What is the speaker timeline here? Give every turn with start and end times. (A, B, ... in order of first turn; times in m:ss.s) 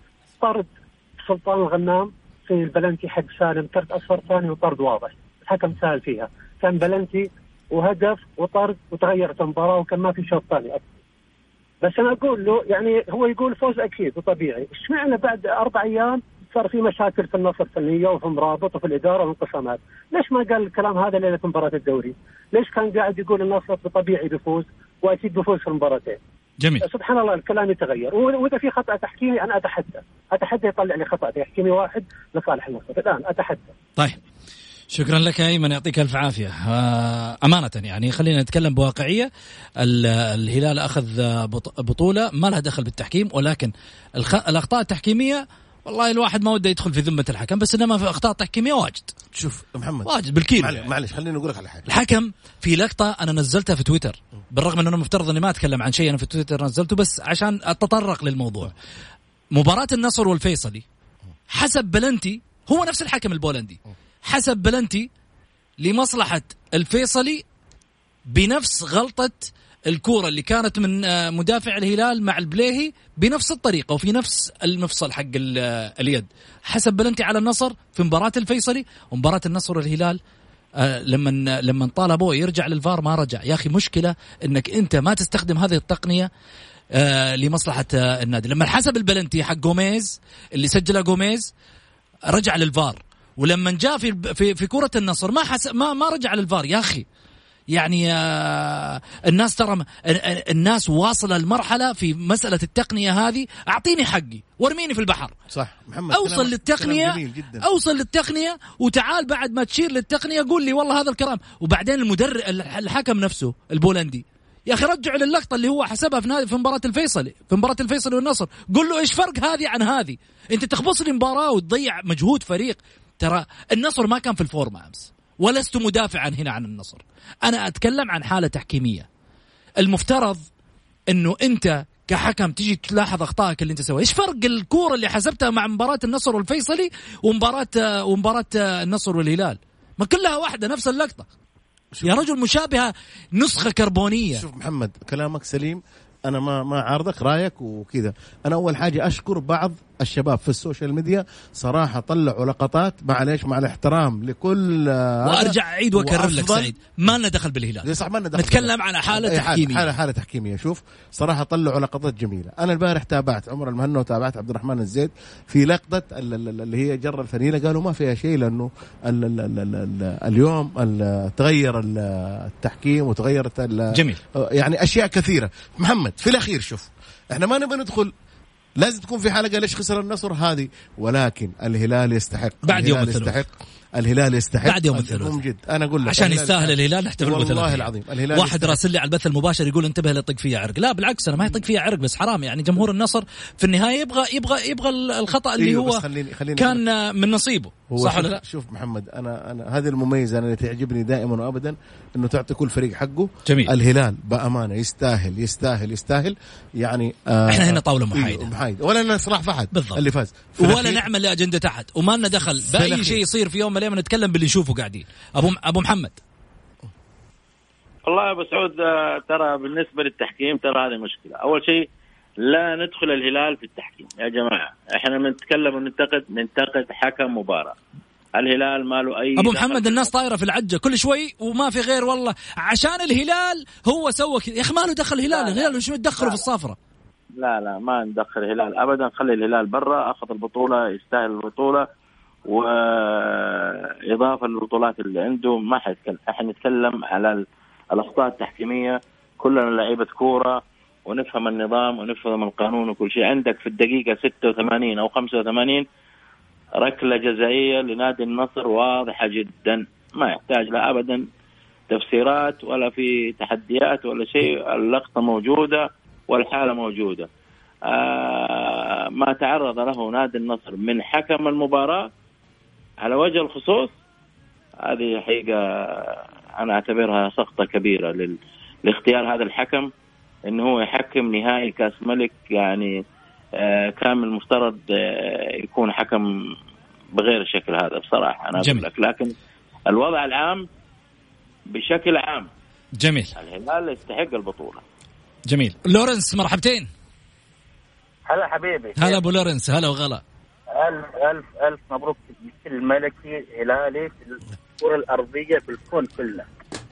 0:00.4-0:10.8 A
0:11.8-0:26.2 A
0:26.8-0:33.7 A
0:34.9-0:39.3 B
0:39.8-0:49.1 B
0:49.3-0:51.8 C
0:50.0-0:50.9 B
0:51.9-0:58.7 B
0:59.6-1:00.8 B
1:01.5-1:05.1 B
1:05.8-1:07.4 B
1:08.3-1:20.2 B
1:20.8-1:26.3 B
1:27.0-1:31.5 B
1:32.3-1:37.1 B
1:37.7-1:45.4 B
1:45.5-1:47.7 C
1:46.1-2:09.1 B
2:09.8-2:10.4 B
2:11.1-2:21.3 B
2:21.9-2:22.2 C
2:22.0-2:24.4 B
2:24.3-2:36.7 C
2:35.2-2:39.9 B
2:37.8-2:58.1 C
2:53.9-2:54.2 B
2:58.8-3:08.8 C
3:02.6-3:03.4 B
3:04.6-3:05.4 B
3:06.1-3:16.0 B
3:15.6-3:16.8 C
3:16.6-3:18.4 B
3:17.9-3:31.0 C
3:23.5-3:23.7 B
3:27.5-3:28.5 B
3:29.7-3:30.0 B
3:30.6-3:36.2 B
3:32.6-3:33.2 C
3:38.1-3:41.9 D
3:42.4-3:47.8 D
3:48.4-3:50.1 D
3:49.4-3:56.8 B
3:55.3-3:56.4 D
3:57.4-4:01.9 D
4:02.5-4:07.4 D
4:07.9-4:15.8 D
4:16.8-4:21.2 D
4:21.9-4:27.3 D
4:27.9-4:32.1 D
4:33.0-4:33.9 D
4:34.8-4:39.9 D
4:40.5-4:42.9 D
4:43.6-4:46.3 D
4:47.2-4:49.3 D
4:48.6-4:48.9 B
4:49.9-4:50.6 D
4:51.7-4:52.5 D
4:53.0-4:53.4 B
4:53.4-4:54.8 D
4:55.5-4:56.9 B
4:58.3-4:59.2 E
4:59.0-5:00.2 B
5:00.7-5:06.5 E